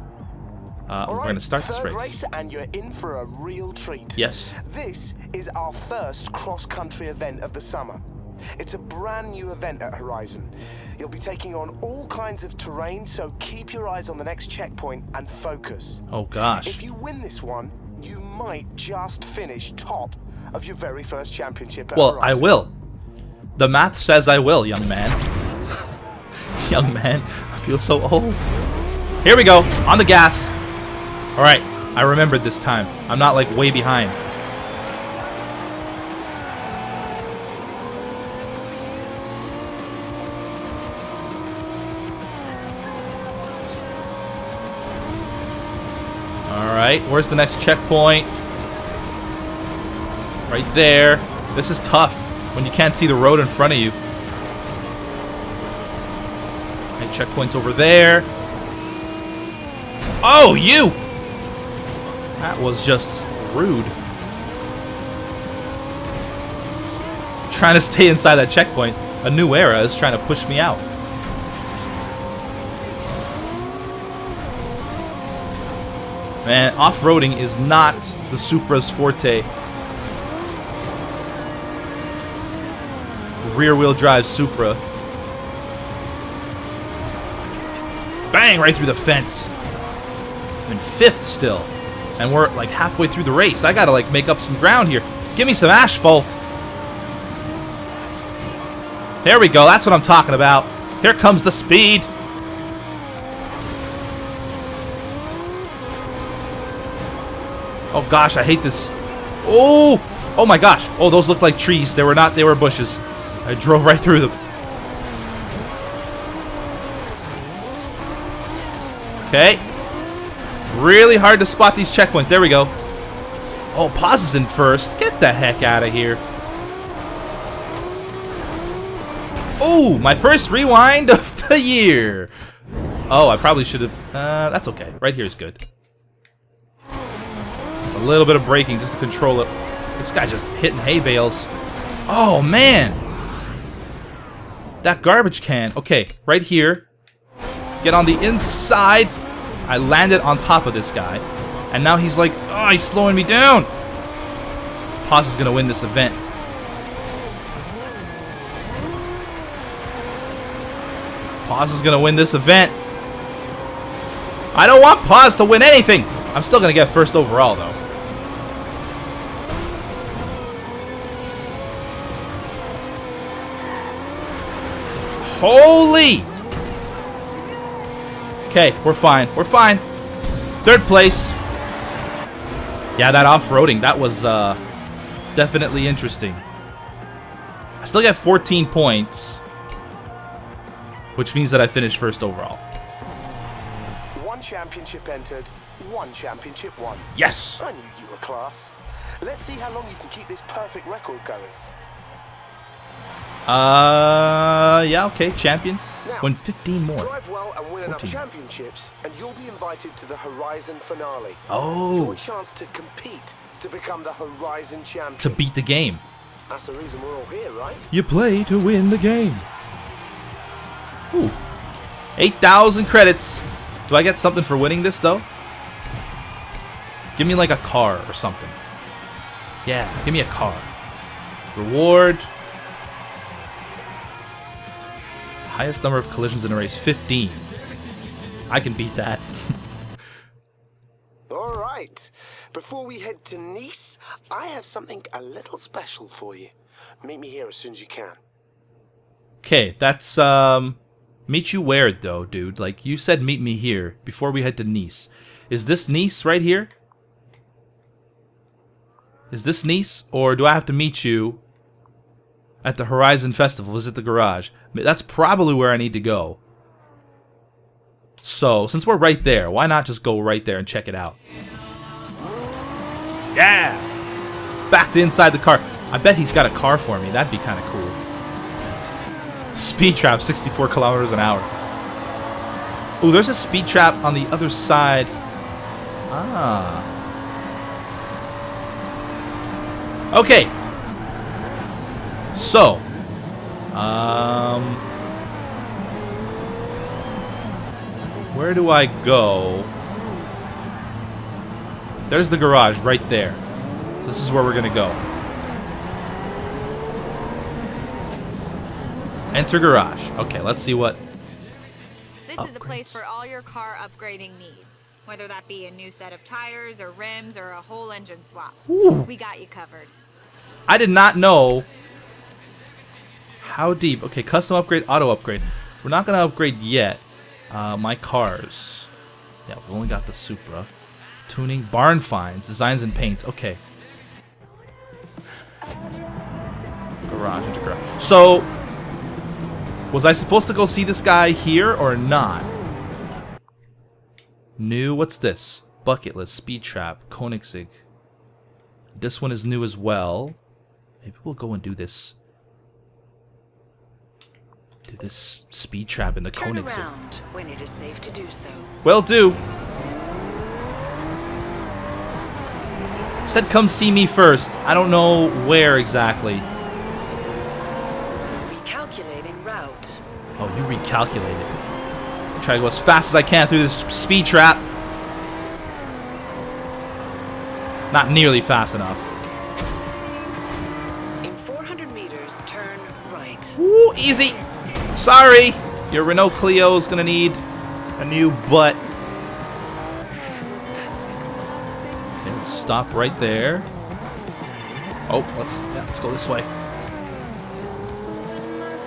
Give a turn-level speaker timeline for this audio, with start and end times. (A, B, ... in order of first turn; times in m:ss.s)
0:00.9-0:02.2 A
0:01.1-0:08.0 B
0:04.2-0:04.5 A
0:08.6-0:16.0 B
0:16.1-0:16.8 A
0:16.6-0:22.5 B
0:21.9-0:22.7 A
0:23.6-0:25.2 A
0:26.6-0:28.5 A
0:29.2-0:30.5 A
0:31.4-0:34.2 A
0:46.5-0:48.3 A
0:50.5-0:54.0 A
0:57.0-0:58.3 A
1:00.2-1:01.0 A
1:02.4-1:04.0 A
1:07.5-1:10.8 A
1:16.4-1:19.5 A
1:23.4-1:24.8 A
1:28.3-1:29.5 A
1:30.7-1:36.4 A
1:39.2-1:42.1 A
1:47.9-1:48.9 A
1:49.4-1:54.4 A
1:59.2-1:59.6 A
2:00.7-2:02.7 A
2:03.7-2:06.2 A
2:09.6-2:12.3 A
2:13.1-2:15.6 A
2:17.9-2:21.5 A
2:22.1-2:23.0 A
2:24.8-2:26.8 A
2:27.8-2:33.7 A
2:35.0-2:36.2 A
2:41.4-2:42.8 A
2:44.5-2:47.8 A
2:55.2-2:56.3 A
2:58.5-2:59.8 A
3:00.6-3:01.4 A
3:03.0-3:04.6 A
3:05.4-3:06.4 A
3:07.8-3:09.4 A
3:11.2-3:12.6 A
3:14.1-3:21.6 B
3:17.2-3:17.6 A
3:23.5-3:27.1 A
3:26.0-3:26.3 B
3:26.9-3:35.4 B
3:27.8-3:28.2 A
3:31.5-3:32.2 A
3:35.2-3:36.0 A
3:36.5-3:37.9 B
3:37.9-3:39.5 A
3:41.1-3:41.4 A
3:42.2-3:45.3 A
3:47.2-3:48.6 A
3:49.6-3:50.7 A
3:51.6-3:52.3 A
3:55.5-3:57.4 A
3:58.5-3:59.5 A
4:01.3-4:08.2 B
4:09.4-4:16.7 A
4:19.3-4:21.4 A
4:22.6-4:26.4 A
4:28.2-4:31.2 A
4:33.3-4:33.9 A
4:34.7-4:38.0 A
4:39.6-4:41.5 A
4:43.0-4:45.1 A
4:46.1-4:46.9 A
4:50.1-4:50.6 A
4:52.3-4:52.9 A
4:53.7-4:54.8 A
4:58.3-4:59.7 A
5:02.1-5:03.4 A
5:04.0-5:05.0 A
5:09.3-5:11.0 A
5:12.3-5:19.9 C
5:12.4-5:13.0 A
5:18.7-5:19.1 A
5:20.7-5:21.7 A
5:23.4-5:28.9 A
5:29.5-5:30.7 A
5:31.3-5:33.6 A
5:37.1-5:38.5 A
5:39.9-5:42.5 A
5:44.6-5:47.8 A
5:49.0-5:50.4 A
5:51.0-5:52.2 A
5:54.9-5:56.9 A
5:56.3-5:58.7 D
5:58.8-5:59.4 A
6:03.3-6:06.5 A
6:08.4-6:10.0 D
6:10.4-6:11.6 A
6:12.4-6:14.7 A
6:17.9-6:19.0 A
6:21.2-6:23.6 D
6:23.6-6:24.4 A
6:24.9-6:27.4 A
6:28.0-6:28.8 A
6:32.2-6:33.7 A
6:35.1-6:36.5 A